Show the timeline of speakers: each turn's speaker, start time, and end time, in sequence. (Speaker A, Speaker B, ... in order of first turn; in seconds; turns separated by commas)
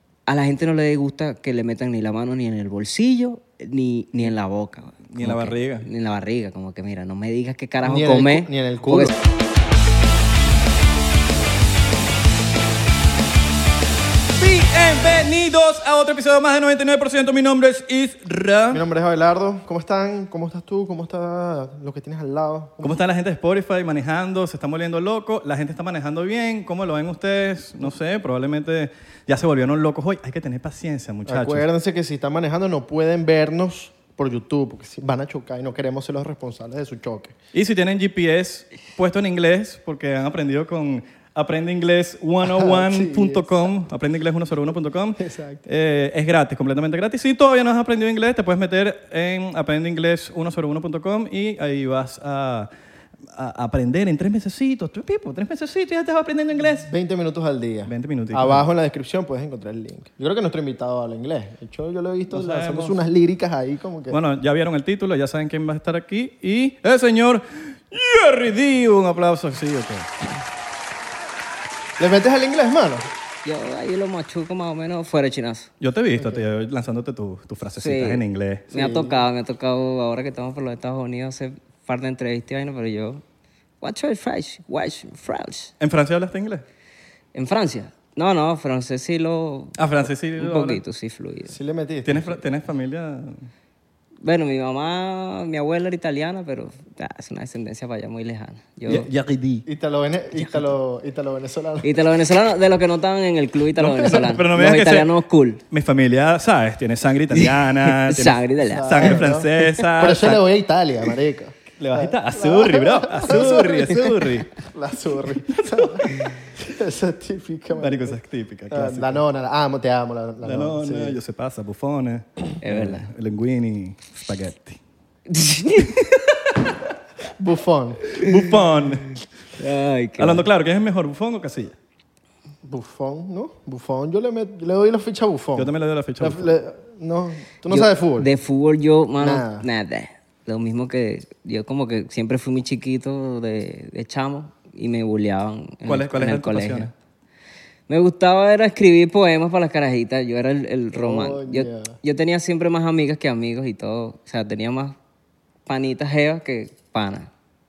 Speaker A: 0.3-9.1, Speaker B: 5.1-5.9, Speaker C: 7.8-9.2, Speaker B: 14.4-18.8, Speaker C: 18.7-23.0, Speaker B: 22.8-31.6, Speaker C: 31.2-37.3, Speaker B: 37.5-52.7, Speaker C: 42.4-43.6, Speaker C: 45.2-45.6, Speaker B: 53.3-56.9, Speaker C: 56.9-64.2, Speaker B: 57.9-58.6, Speaker B: 62.3-63.0, Speaker B: 64.1-70.2, Speaker C: 72.0-73.1, Speaker A: 73.4-75.7, Speaker B: 75.8-78.7, Speaker C: 76.2-76.4, Speaker A: 77.8-83.2, Speaker C: 78.7-79.2, Speaker A: 83.8-85.7, Speaker B: 85.8-86.6, Speaker A: 87.3-89.8, Speaker B: 89.8-90.8, Speaker A: 90.3-91.5, Speaker C: 91.5-92.4, Speaker B: 92.0-93.5, Speaker A: 94.2-99.1, Speaker B: 98.9-99.7, Speaker C: 99.7-101.9, Speaker A: 101.8-105.6, Speaker B: 103.8-105.1, Speaker B: 105.7-110.4, Speaker A: 107.3-109.2, Speaker C: 108.7-114.0, Speaker B: 111.8-114.6, Speaker C: 114.6-118.2, Speaker B: 115.5-116.1, Speaker B: 117.7-119.2, Speaker C: 118.7-121.2, Speaker B: 120.4-124.8, Speaker A: 122.6-123.1, Speaker A: 125.3-126.5, Speaker C: 127.4-128.0, Speaker B: 128.1-129.2, Speaker A: 129.6-130.5, Speaker B: 130.2-131.7, Speaker C: 132.6-138.3, Speaker B: 135.6-136.5, Speaker A: 137.7-146.9, Speaker C: 139.2-139.6, Speaker B: 145.8-146.9, Speaker A: 147.9-155.0, Speaker C: 150.9-151.9, Speaker A: 155.7-157.3